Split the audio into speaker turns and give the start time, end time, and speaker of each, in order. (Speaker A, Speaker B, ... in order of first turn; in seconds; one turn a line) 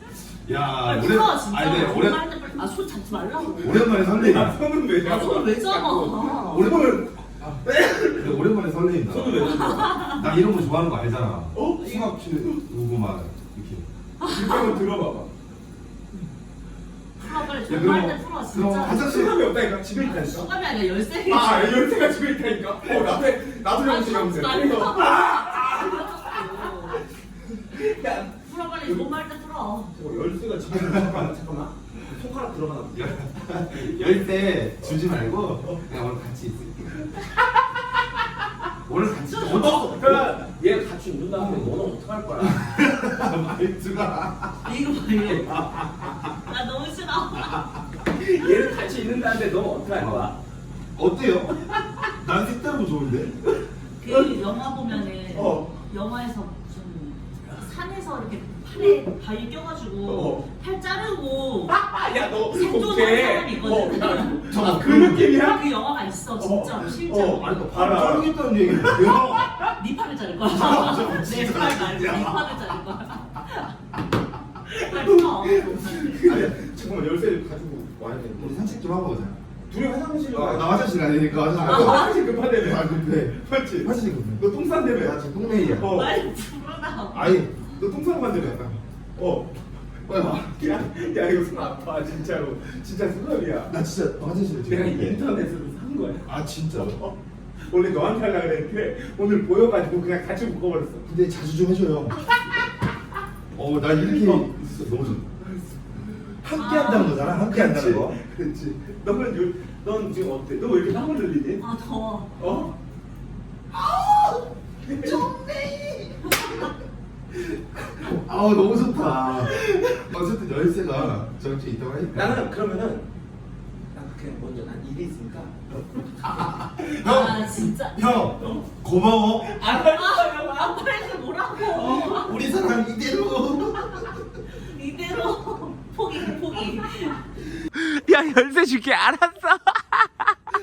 Speaker A: 0.3-2.3
Speaker B: 0.8-3.9
Speaker A: 3.6-4.6
Speaker C: 3.7-8.5
Speaker B: 5.0-6.7
Speaker A: 6.4-7.6
Speaker A: 8.2-13.9
Speaker C: 9.1-10.1
Speaker B: 9.4-10.2
Speaker C: 11.5-12.6
Speaker B: 14.2-14.8
Speaker C: 14.3-15.3
Speaker B: 17.2-21.9
Speaker A: 17.7-19.4
Speaker C: 18.8-20.5
Speaker C: 21.3-27.0
Speaker B: 23.7-27.1
Speaker C: 27.6-29.1
Speaker B: 27.7-29.9
Speaker C: 29.9-33.2
Speaker A: 30.8-31.3
Speaker A: 33.0-37.2
Speaker A: 38.9-40.4
Speaker B: 39.2-39.9
Speaker C: 39.4-42.6
Speaker A: 41.4-41.9
Speaker A: 42.4-44.7
Speaker B: 44.6-45.7
Speaker C: 45.3-46.1
Speaker A: 45.5-46.2
Speaker B: 46.5-47.7
Speaker A: 47.4-47.6
Speaker C: 48.1-50.4
Speaker A: 50.0-50.3
Speaker A: 51.0-53.4
Speaker B: 54.0-61.8
Speaker C: 54.1-54.4
Speaker C: 55.3-55.7
Speaker C: 60.0-60.5
Speaker C: 61.7-65.8
Speaker B: 62.5-64.5
Speaker A: 64.5-65.4
Speaker B: 65.2-67.7
Speaker C: 66.4-69.7
Speaker A: 67.4-69.6
Speaker B: 69.6-73.8
Speaker A: 70.5-72.7
Speaker C: 74.7-78.7
Speaker B: 74.7-76.5
Speaker A: 78.4-79.4
Speaker C: 79.7-85.2
Speaker A: 80.3-86.0
Speaker B: 81.7-82.2
Speaker C: 85.7-86.2
Speaker B: 85.8-87.4
Speaker A: 87.1-87.5
Speaker C: 87.1-93.7
Speaker A: 90.1-90.5
Speaker A: 93.7-95.2
Speaker C: 94.7-101.1
Speaker A: 96.3-97.0
Speaker A: 101.0-102.3
Speaker A: 103.5-105.3
Speaker C: 103.9-104.8
Speaker C: 105.4-106.4
Speaker A: 106.4-108.2
Speaker B: 106.5-107.3
Speaker C: 107.3-111.6
Speaker B: 111.6-112.7
Speaker C: 112.4-112.8
Speaker C: 113.7-115.5
Speaker A: 115.1-116.0
Speaker C: 116.2-116.6
Speaker B: 116.3-116.6
Speaker A: 118.0-122.4
Speaker C: 119.2-120.0
Speaker C: 122.1-123.1
Speaker C: 123.9-125.6
Speaker A: 126.3-129.5
Speaker B: 126.8-128.3
Speaker C: 128.3-128.7
Speaker C: 129.4-132.2
Speaker B: 129.7-132.4
Speaker A: 131.7-134.3
Speaker B: 134.5-137.3
Speaker D: 137.8-140.3